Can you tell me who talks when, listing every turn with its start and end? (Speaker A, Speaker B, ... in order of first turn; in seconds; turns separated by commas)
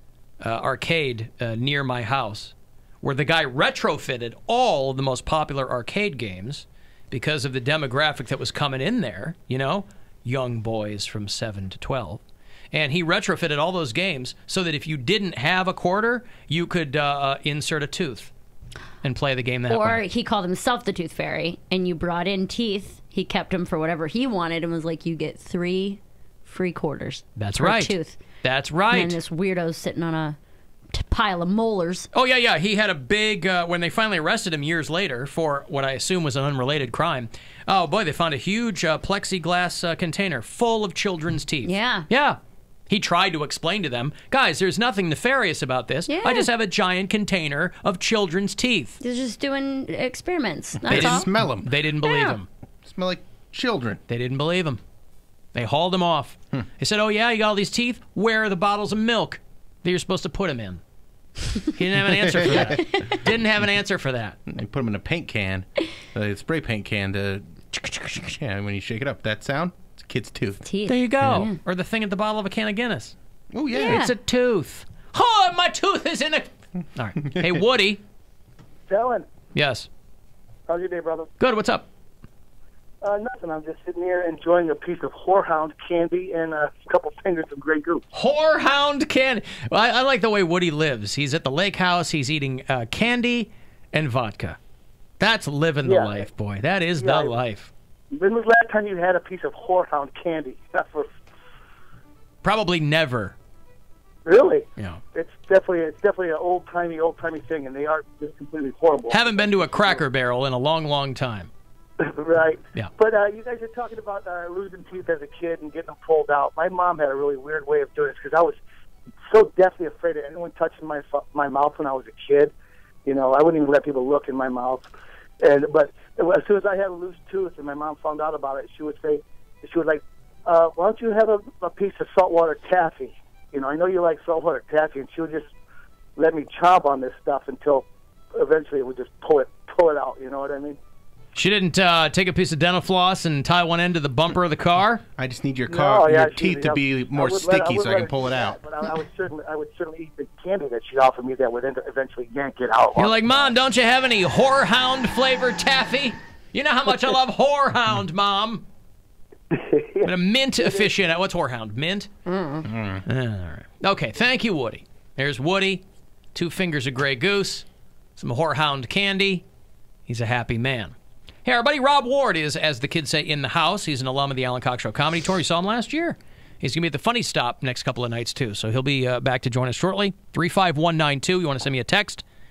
Speaker A: 0.4-12.2, Speaker A: 12.7-18.3, Speaker A: 19.0-20.0, Speaker B: 19.7-28.2, Speaker A: 27.4-29.2, Speaker B: 28.9-30.4, Speaker B: 30.9-32.1, Speaker A: 32.1-42.4, Speaker B: 41.6-42.1, Speaker A: 42.9-49.0, Speaker B: 46.1-46.5, Speaker B: 49.0-51.3, Speaker C: 50.8-51.7, Speaker A: 50.9-52.5, Speaker B: 52.0-52.4, Speaker C: 52.8-54.0, Speaker A: 54.1-54.8, Speaker A: 55.5-60.8, Speaker A: 61.7-64.4, Speaker C: 62.1-62.7, Speaker C: 64.5-70.6, Speaker B: 70.6-71.5, Speaker A: 70.8-73.1, Speaker C: 73.5-74.0, Speaker B: 73.7-74.1, Speaker A: 73.7-78.0, Speaker D: 78.9-79.2, Speaker A: 79.5-79.9, Speaker D: 80.7-81.3, Speaker A: 81.4-81.9, Speaker D: 83.0-88.0, Speaker A: 88.1-94.6, Speaker A: 95.2-97.7, Speaker D: 95.8-96.3, Speaker D: 97.0-97.3, Speaker D: 98.1-101.1, Speaker A: 102.4-103.4, Speaker D: 104.2-110.0, Speaker A: 109.1-111.5, Speaker D: 112.0-118.6, Speaker D: 119.3-122.5, Speaker D: 123.0-124.8, Speaker D: 125.4-135.5, Speaker D: 136.2-140.8, Speaker A: 141.3-145.0, Speaker C: 145.2-148.6, Speaker D: 145.7-153.5, Speaker A: 153.0-158.6, Speaker D: 159.5-160.9, Speaker A: 160.0-162.1, Speaker B: 162.3-162.7, Speaker C: 162.7-163.0, Speaker A: 163.1-167.6, Speaker A: 168.2-169.4, Speaker A: 170.1-182.2